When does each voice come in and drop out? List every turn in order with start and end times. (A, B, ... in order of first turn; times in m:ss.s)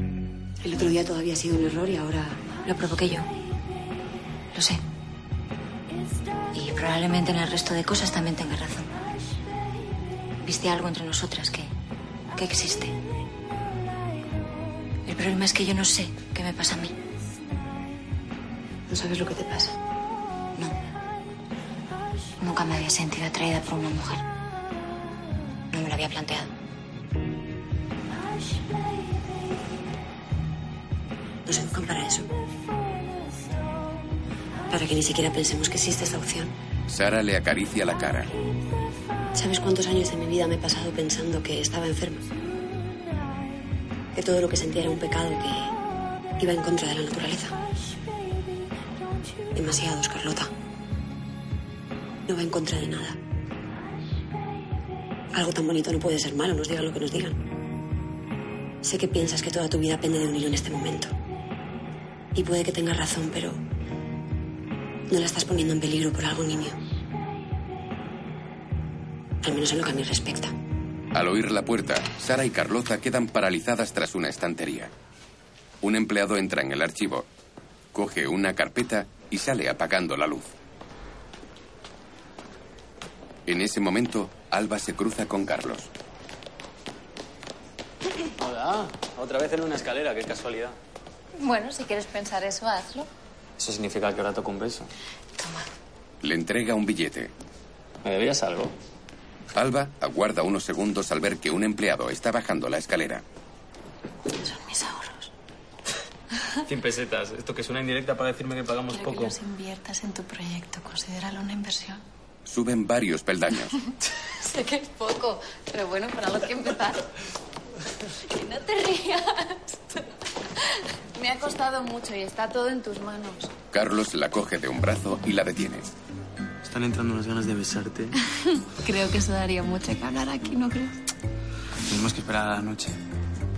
0:00.6-0:02.5 A
0:02.6-0:03.3 B
0:04.5-0:04.8 B
0:06.5-0:08.9 B
0:10.4-0:11.7 B
0:12.3-0:13.0 B
0:15.0-0:16.9 B
0:19.2-0:19.6 C
0:22.4-0:24.2 B
0:25.7-0:26.5 B
0:31.5-0:32.3 A
0:34.7-0:36.5 A
0:36.9-0:38.3 D
0:39.3-0:42.3 A
0:44.2-0:45.7 A
0:46.4-0:47.6 A
0:49.5-0:50.5 A
0:52.3-0:53.2 A
0:55.3-0:57.4 A
0:58.8-1:01.1 A
1:02.4-1:03.6 A
1:05.1-1:06.8 A
1:09.4-1:10.5 A
1:11.1-1:14.9 D
1:15.8-1:17.3 D
1:17.9-1:20.5 D
1:23.5-1:25.9 D
1:28.4-1:30.8 E
1:31.4-1:33.1 C
1:33.6-1:34.9 E
1:36.2-1:37.3 D
1:38.0-1:38.8 E
1:39.6-1:43.2 D
1:44.4-1:45.3 C
1:46.7-1:49.4 E
1:48.9-1:52.0 C
1:52.5-1:53.8 D
1:54.4-1:57.0 C
1:58.3-2:00.0 C
2:01.2-2:03.5 C
2:03.7-2:05.9 D
2:06.6-2:08.2 E
2:08.7-2:11.0 C
2:11.8-2:13.0 E